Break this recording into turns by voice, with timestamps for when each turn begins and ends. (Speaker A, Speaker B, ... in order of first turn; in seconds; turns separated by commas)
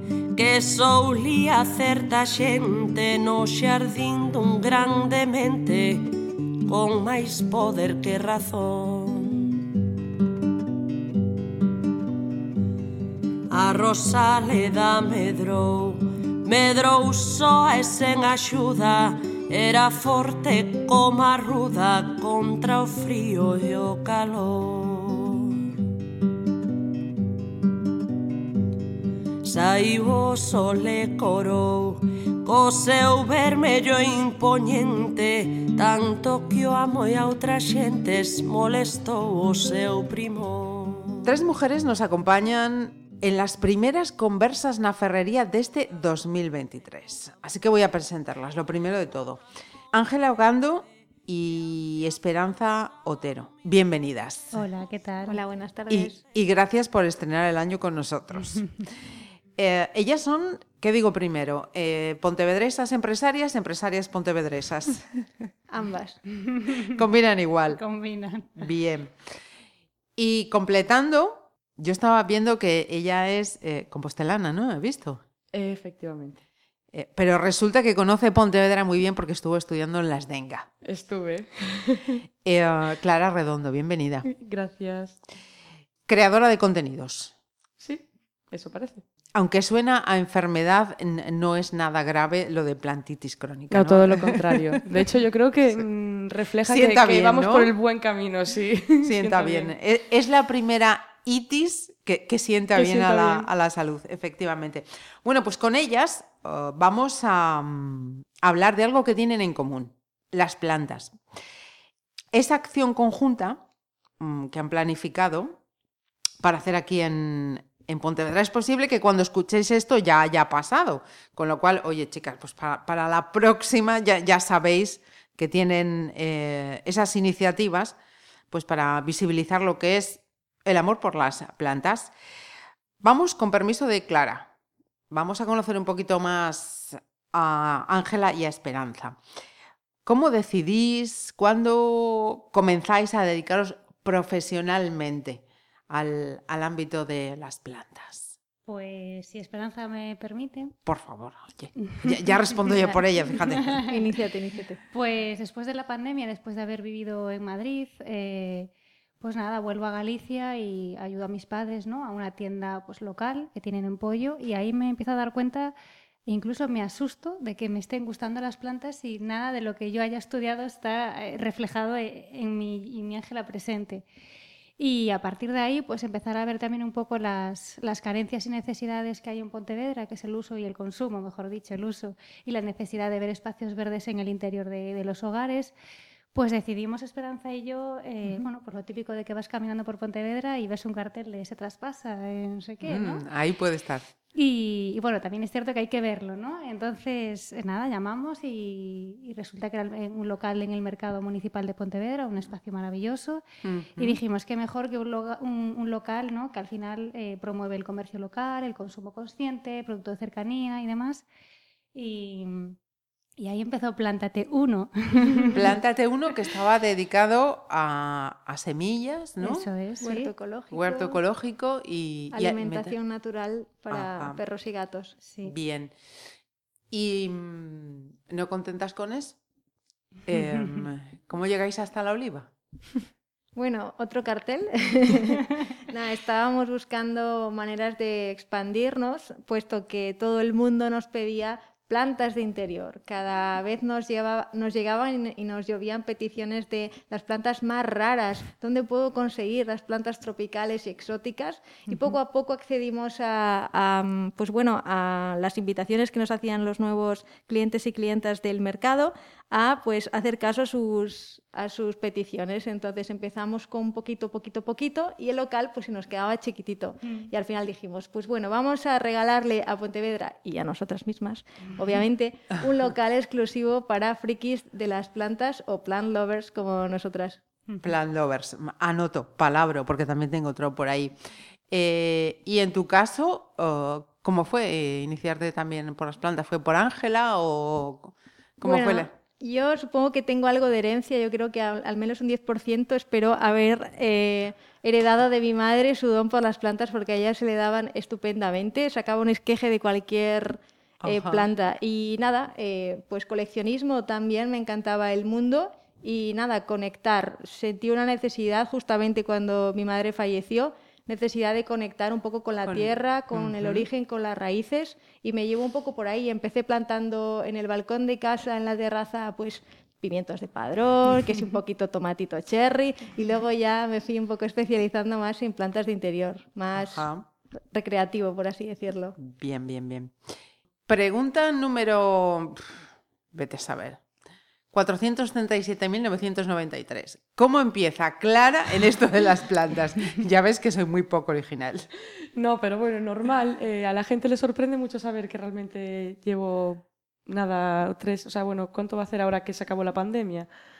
Speaker A: 0.3-6.2, Speaker A: 6.7-9.6, Speaker A: 13.5-25.6, Speaker A: 29.4-41.3, Speaker B: 41.2-49.4, Speaker B: 49.9-54.6, Speaker C: 54.5-55.4, Speaker D: 55.2-56.2, Speaker B: 55.9-58.7, Speaker B: 59.6-65.2, Speaker D: 65.7-66.2, Speaker C: 66.5-66.8, Speaker B: 66.9-67.8, Speaker C: 67.7-68.6, Speaker B: 68.6-69.1, Speaker B: 70.2-75.2, Speaker E: 75.5-76.4, Speaker B: 76.9-80.7, Speaker E: 80.8-82.2, Speaker B: 82.5-84.3, Speaker E: 84.2-85.2, Speaker B: 86.1-87.3, Speaker E: 87.8-89.0, Speaker B: 89.3-94.8, Speaker E: 93.7-99.7, Speaker B: 96.7-97.7, Speaker B: 99.0-111.2, Speaker E: 102.8-103.5, Speaker B: 112.3-113.6, Speaker B: 114.2-115.6, Speaker B: 116.4-128.0, Speaker B: 128.5-132.1, Speaker B: 133.0-134.5, Speaker B: 135.1-139.2, Speaker B: 140.1-148.3, Speaker C: 148.7-150.8, Speaker B: 150.9-153.8, Speaker D: 153.9-154.8, Speaker C: 154.9-165.7, Speaker C: 166.3-174.1, Speaker C: 174.8-185.7, Speaker C: 186.3-193.2, Speaker B: 192.8-194.1, Speaker C: 194.3-203.4, Speaker B: 203.6-204.2, Speaker C: 204.0-211.2, Speaker C: 211.9-212.8, Speaker C: 213.4-215.6, Speaker B: 215.5-219.7, Speaker C: 219.4-220.3, Speaker D: 220.0-221.2, Speaker B: 220.7-223.0, Speaker D: 222.3-225.2, Speaker B: 223.9-224.4, Speaker C: 225.2-225.5, Speaker B: 225.4-225.9, Speaker B: 226.9-229.4, Speaker B: 230.3-232.5, Speaker D: 233.6-277.4, Speaker C: 267.0-267.3, Speaker B: 277.8-281.1, Speaker B: 281.7-289.1, Speaker D: 288.6-327.1, Speaker B: 301.0-301.5, Speaker B: 312.6-313.9, Speaker B: 326.7-327.3, Speaker D: 327.7-329.2, Speaker B: 329.2-330.1, Speaker B: 330.9-334.0, Speaker B: 334.7-341.9, Speaker E: 342.4-350.5